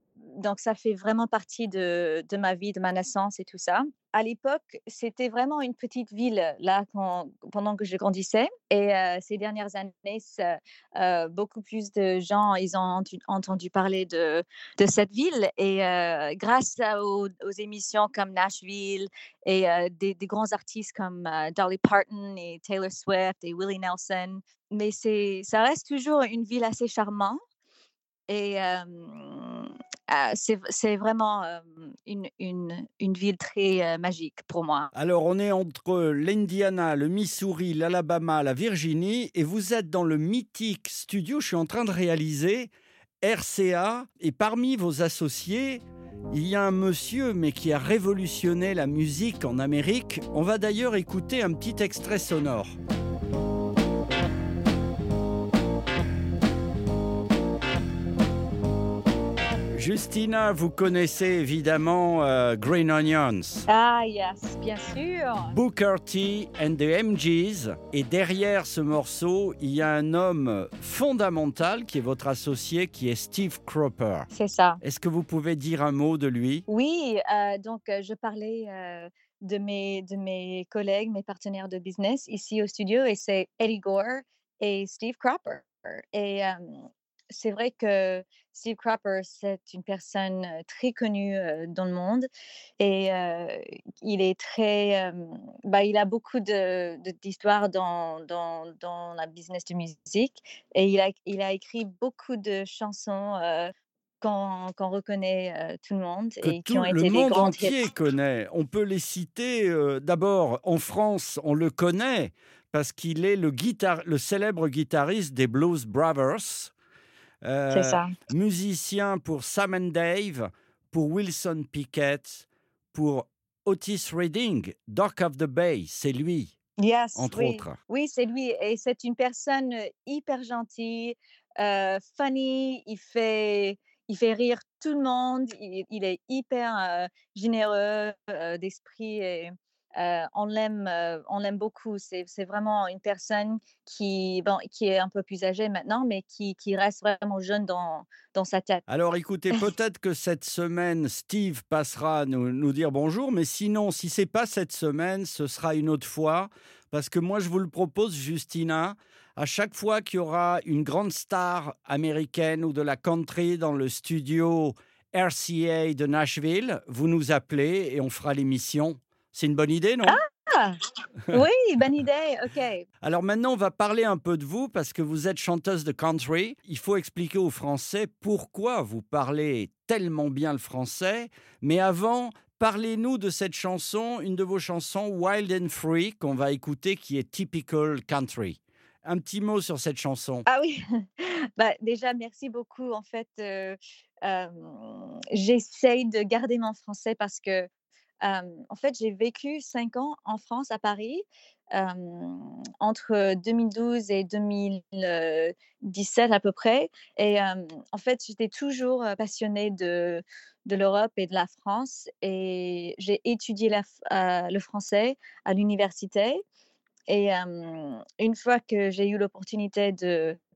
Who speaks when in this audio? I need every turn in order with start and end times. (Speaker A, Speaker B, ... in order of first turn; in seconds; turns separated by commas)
Speaker A: 0.3-27.4, Speaker A: 28.3-34.9, Speaker B: 34.9-42.7, Speaker B: 43.2-52.8, Speaker B: 59.8-63.6, Speaker A: 63.7-65.5, Speaker B: 65.5-74.3, Speaker A: 74.3-74.8, Speaker B: 74.8-76.6, Speaker A: 76.7-86.8, Speaker A: 87.3-107.8, Speaker B: 106.4-116.7, Speaker B: 117.5-126.5, Speaker A: 117.7-118.1, Speaker A: 126.8-148.8, Speaker B: 127.2-127.8, Speaker B: 148.9-170.2, Speaker A: 170.1-170.8, Speaker A: 171.3-172.8, Speaker B: 173.0-190.4, Speaker A: 190.5-197.7, Speaker A: 198.2-216.4, Speaker A: 217.1-220.4